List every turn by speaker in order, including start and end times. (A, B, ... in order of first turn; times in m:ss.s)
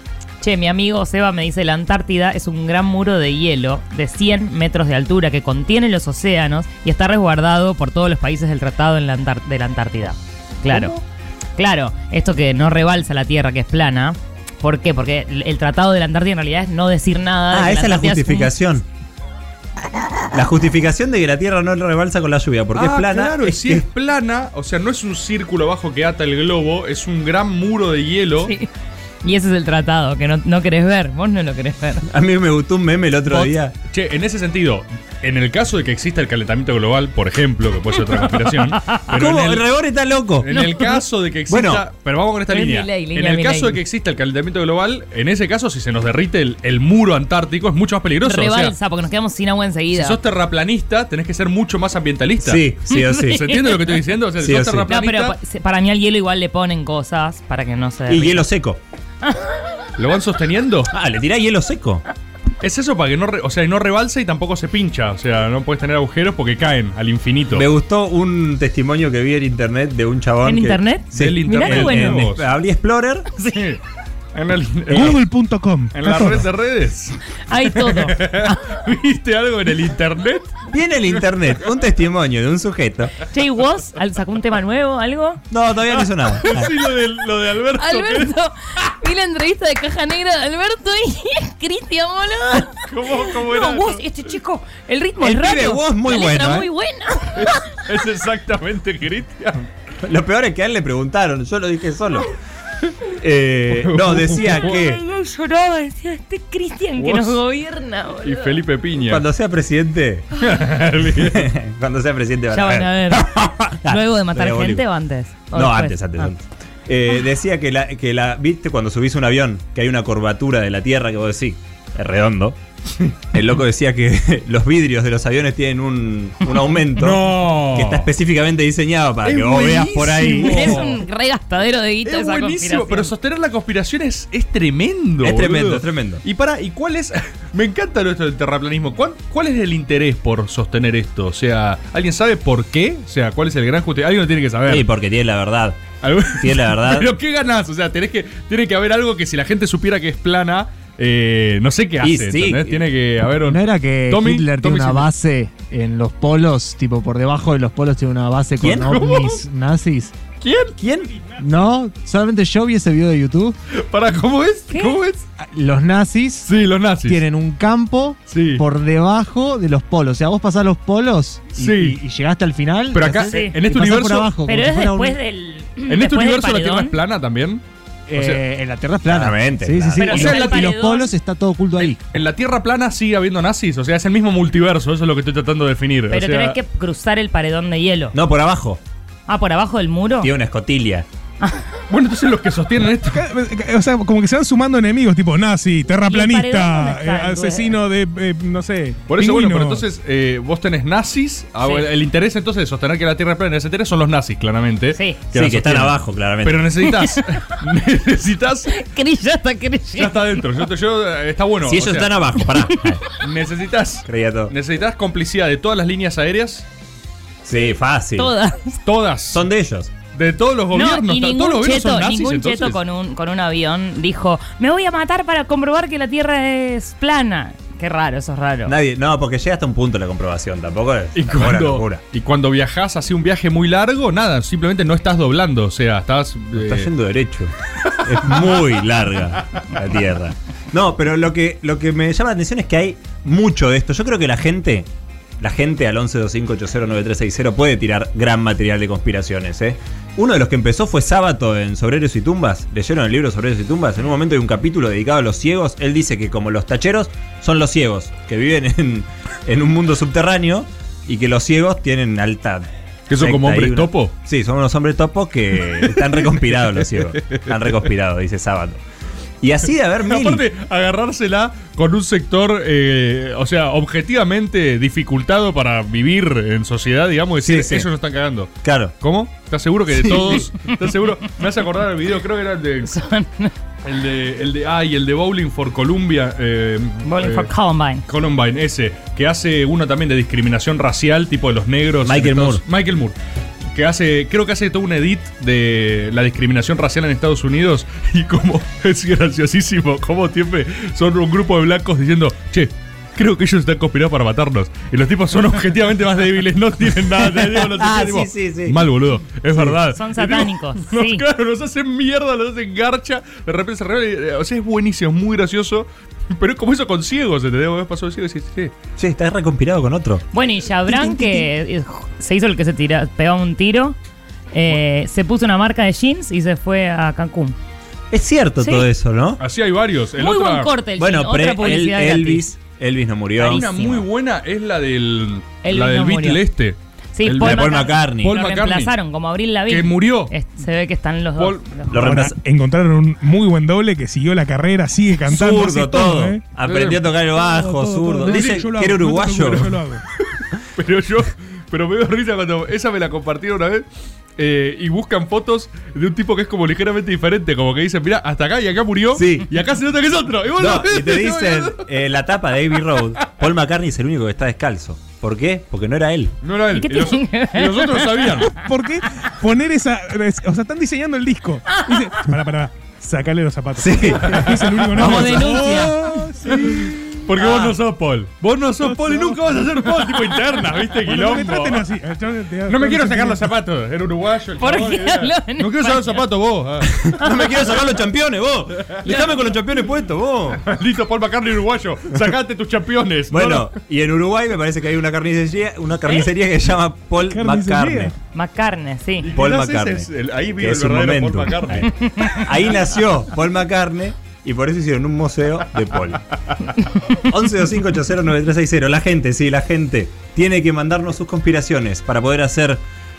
0:00.4-0:11.0 A
0:11.6-0:18.5 A
0:17.5-0:18.8 B
0:20.3-0:23.8 B
0:22.7-0:28.5 C
0:28.4-0:28.7 A
0:29.2-0:32.1 A
0:32.1-0:33.7 B
0:33.3-0:39.6 C
0:38.1-0:39.0 A
0:39.1-0:40.5 B
0:40.4-0:48.8 C
0:40.5-0:41.0 A
0:41.5-0:41.8 B
0:42.5-0:43.8 A
0:48.2-0:50.2 A
0:49.9-0:55.4 C
0:52.4-0:53.5 B
0:52.9-0:54.0 A
0:54.4-0:54.9 B
0:54.9-0:58.5 A
0:58.1-0:58.8 B
1:00.0-1:00.9 C
1:00.9-1:02.0 B
1:02.6-1:07.7 C
1:07.5-1:13.3 B
1:10.4-1:12.3 A
1:11.2-1:12.5 C
1:13.5-1:13.8 C
1:14.3-1:15.2 C
1:14.9-1:16.5 D
1:15.9-1:20.6 C
1:17.5-1:18.8 A
1:20.7-1:23.1 B
1:23.2-1:25.4 A
1:25.5-1:26.7 B
1:26.4-1:28.3 C
1:27.8-1:37.8 A
1:32.9-1:34.0 C
1:35.2-1:36.7 B
1:37.4-1:39.7 C
1:40.0-1:42.3 B
1:43.1-1:45.0 B
1:43.7-1:44.8 C
1:44.6-1:48.6 A
1:47.0-1:47.4 C
1:48.2-1:49.2 C
1:49.0-1:50.3 B
1:50.4-1:51.5 C
1:51.1-1:54.8 B
1:52.5-1:56.3 A
1:55.5-2:02.6 B
2:03.3-2:10.9 B
2:07.0-2:08.1 C
2:09.2-2:11.0 C
2:10.4-2:13.1 A
2:12.0-2:24.9 C
2:15.2-2:16.2 B
2:24.7-2:25.8 B
2:26.0-2:35.1 C
2:26.4-2:27.2 B
2:32.0-2:32.8 B
2:33.4-2:40.2 E
2:38.6-2:39.2 B
2:38.7-2:39.4 C
2:40.4-2:40.8 C
2:40.8-2:41.3 B
2:41.4-2:43.6 E
2:43.7-2:45.2 C
2:44.7-2:45.0 A
2:45.4-2:46.5 E
2:46.5-2:47.2 C
2:47.1-2:55.2 E
2:48.3-2:48.6 C
2:51.6-2:52.0 C
2:52.9-2:54.3 C
2:53.3-2:53.6 A
2:54.5-2:57.0 A
2:55.9-2:57.6 C
2:58.1-3:02.0 E
2:58.1-2:58.4 C
2:59.1-3:00.4 B
3:00.0-3:01.1 A
3:00.1-3:00.7 C
3:01.8-3:06.6 C
3:06.1-3:08.2 A
3:08.1-3:08.8 B
3:09.3-3:10.3 A
3:10.2-3:11.1 B
3:11.9-3:13.3 C
3:13.0-3:19.8 D
3:15.9-3:17.8 A
3:19.1-3:28.8 C
3:24.9-3:25.2 A
3:25.3-3:26.6 B
3:26.8-3:27.5 A
3:28.7-3:30.4 A
3:30.0-3:32.4 C
3:31.6-3:33.0 B
3:33.1-3:36.6 C
3:34.1-3:34.5 B
3:37.4-3:38.3 B
3:38.2-3:38.8 A
3:38.9-3:39.4 C
3:39.3-3:39.9 B
3:40.1-3:42.8 C
3:40.7-3:48.8 A
3:48.7-3:52.0 B
3:51.2-3:56.9 C
3:56.6-4:04.9 B
3:58.2-3:58.6 C
4:05.4-4:22.7 B
4:23.1-4:24.1 C
4:23.2-4:28.8 B
4:25.7-4:27.8 C
4:29.4-4:30.4 B
4:30.0-4:43.0 C
4:37.4-4:37.9 B
4:38.6-4:38.9 B
4:40.1-4:40.8 A
4:42.8-4:43.5 A
4:43.8-4:47.5 C
4:47.0-4:48.0 A
4:48.1-4:53.2 C
4:52.0-4:52.6 B
4:53.7-5:18.7 C
5:07.3-5:08.8 B
5:09.5-5:09.8 B
5:09.9-5:11.2 A
5:19.0-5:20.2 B
5:20.3-5:24.0 A
5:20.9-5:21.4 B
5:24.5-5:27.6 A
5:28.1-5:29.4 B
5:28.6-5:28.9 A
5:29.4-5:30.7 C
5:30.2-5:32.5 A
5:31.0-5:33.6 B
5:33.4-5:34.0 A
5:33.4-5:38.9 C
5:35.6-5:36.4 A
5:37.2-5:41.9 A
5:37.4-5:38.4 B
5:39.7-5:40.3 C
5:41.4-5:41.7 C
5:41.9-5:42.4 B
5:41.9-5:46.6 D
5:45.3-5:49.8 B
5:46.7-5:47.0 C
5:47.3-5:50.0 D
5:48.3-5:48.6 C
5:50.8-5:53.8 C
5:54.4-6:01.9 C
5:59.2-5:59.5 B
6:00.6-6:06.4 B
6:06.4-6:08.6 C
6:06.8-6:08.6 A
6:08.6-6:17.2 D
6:13.8-6:15.4 B
6:14.2-6:21.9 C
6:15.0-6:16.0 A
6:17.4-6:17.8 B
6:18.8-6:20.0 D
6:21.0-6:23.5 D
6:22.7-6:27.1 C
6:24.6-6:26.2 A
6:26.9-6:30.6 B
6:28.8-6:29.3 C
6:30.6-6:33.7 C
6:33.3-6:38.1 B
6:37.3-6:38.1 D
6:38.3-6:39.3 A
6:39.2-6:42.5 C
6:39.4-6:46.2 B
6:42.1-6:42.5 A
6:46.8-6:47.1 A
6:47.1-6:52.8 B